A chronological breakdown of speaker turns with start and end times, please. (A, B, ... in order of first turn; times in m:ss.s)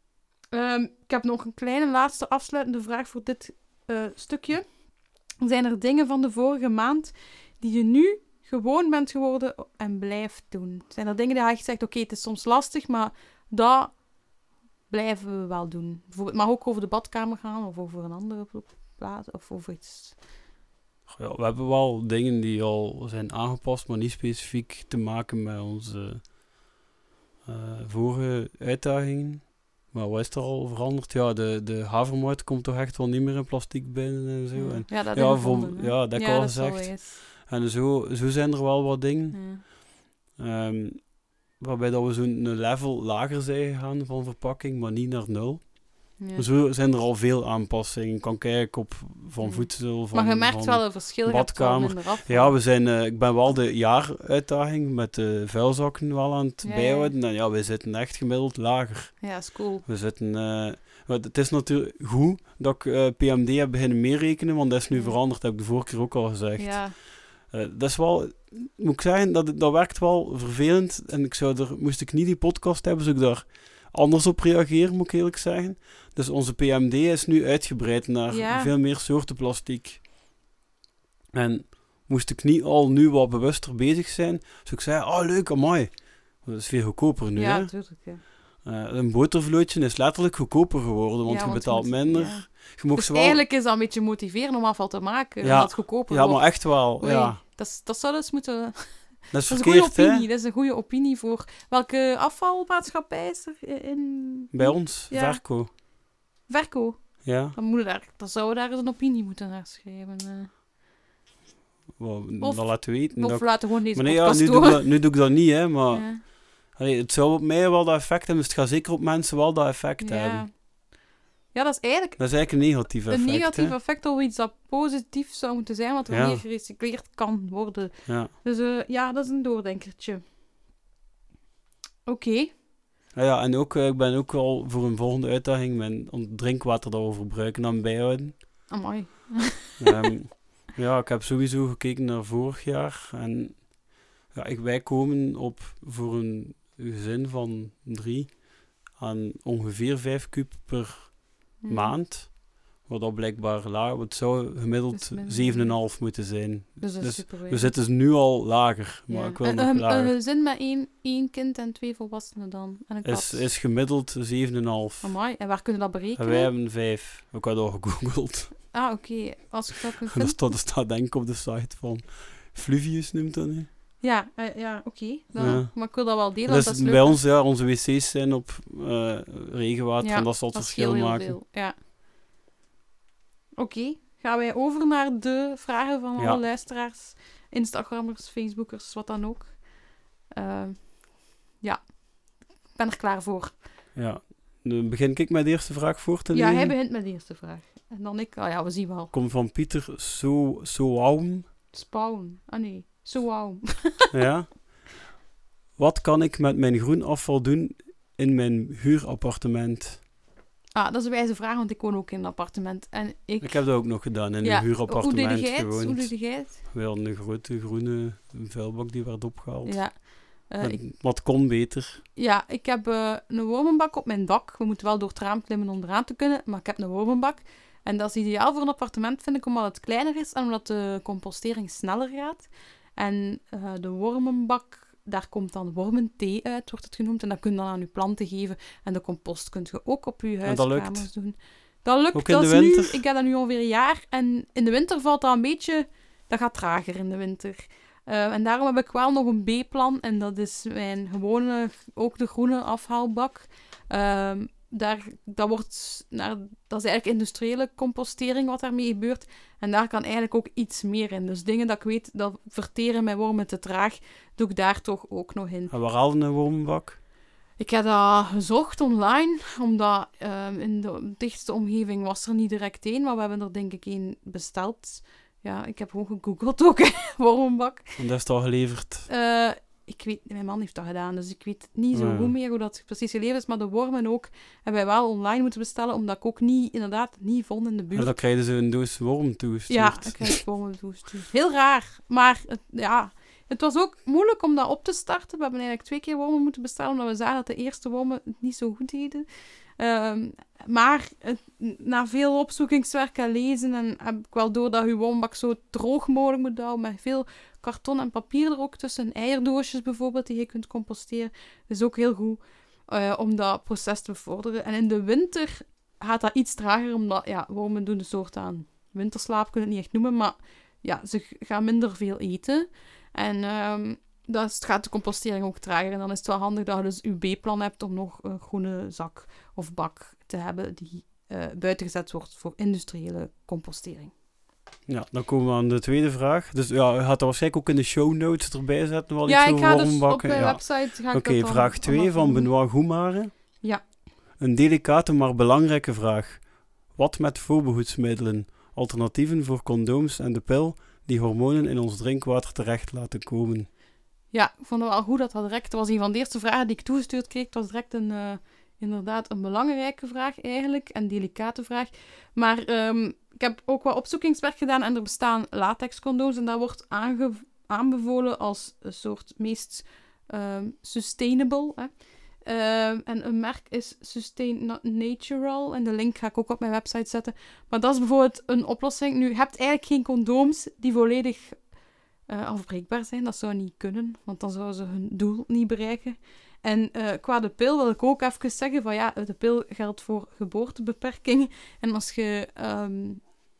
0:00.5-0:04.8 A
0:05.4-0:14.0 A
0:14.9-0:20.2 A
0:21.1-0:26.3 B
0:27.4-0:39.7 B
0:34.5-0:37.2 A
0:39.3-0:39.6 A
0:40.4-1:20.0 B
0:46.2-0:46.4 A
0:49.4-0:52.6 A
0:56.6-0:57.1 A
0:59.2-0:59.8 A
1:04.9-1:05.2 A
1:06.6-1:07.0 A
1:18.3-1:18.7 A
1:21.3-1:27.8 B
1:27.3-1:28.2 A
1:28.6-1:33.4 B
1:31.2-1:45.8 A
1:35.4-1:37.4 B
1:39.3-1:40.2 B
1:44.5-1:45.7 B
1:46.5-1:50.5 A
1:47.2-1:47.6 B
1:52.0-2:00.5 B
1:52.4-1:55.2 A
1:55.9-1:56.2 A
2:00.0-2:00.9 A
2:01.5-2:10.2 A
2:02.2-2:03.8 B
2:06.1-2:06.4 B
2:08.0-2:08.3 B
2:12.0-2:12.5 A
2:13.1-2:18.4 B
2:18.7-2:20.1 A
2:19.8-2:40.1 B
2:31.6-2:32.0 A
2:34.9-2:36.1 A
2:36.8-2:37.7 A
2:39.1-2:43.5 A
2:43.0-2:45.2 B
2:45.0-2:46.5 A
2:46.2-2:48.6 B
2:48.7-2:50.4 A
2:50.1-2:53.7 B
2:54.0-2:57.2 A
2:55.4-3:01.4 B
3:00.0-3:01.8 A
3:03.6-3:09.7 A
3:06.2-3:06.4 B
3:10.3-3:13.6 A
3:13.9-3:16.7 B
3:16.3-3:19.1 A
3:19.1-3:21.5 B
3:21.7-3:24.1 A
3:24.1-3:25.1 B
3:25.8-3:30.0 B
3:30.7-3:36.6 A
3:33.4-3:40.1 B
3:39.6-3:40.9 A
3:40.6-3:42.0 B
3:42.2-4:25.7 A
4:00.4-4:01.1 B
4:02.1-4:03.0 B
4:25.7-4:27.0 B
4:27.6-4:37.9 A
4:38.0-4:39.1 B
4:39.1-4:48.2 A
4:41.9-4:42.3 B
4:47.9-4:50.4 B
4:49.7-4:59.2 A
4:59.8-5:34.1 A
5:34.9-5:43.6 B
5:39.2-5:42.5 A
5:44.4-5:53.7 B
5:54.3-6:21.7 A
6:22.2-6:33.4 A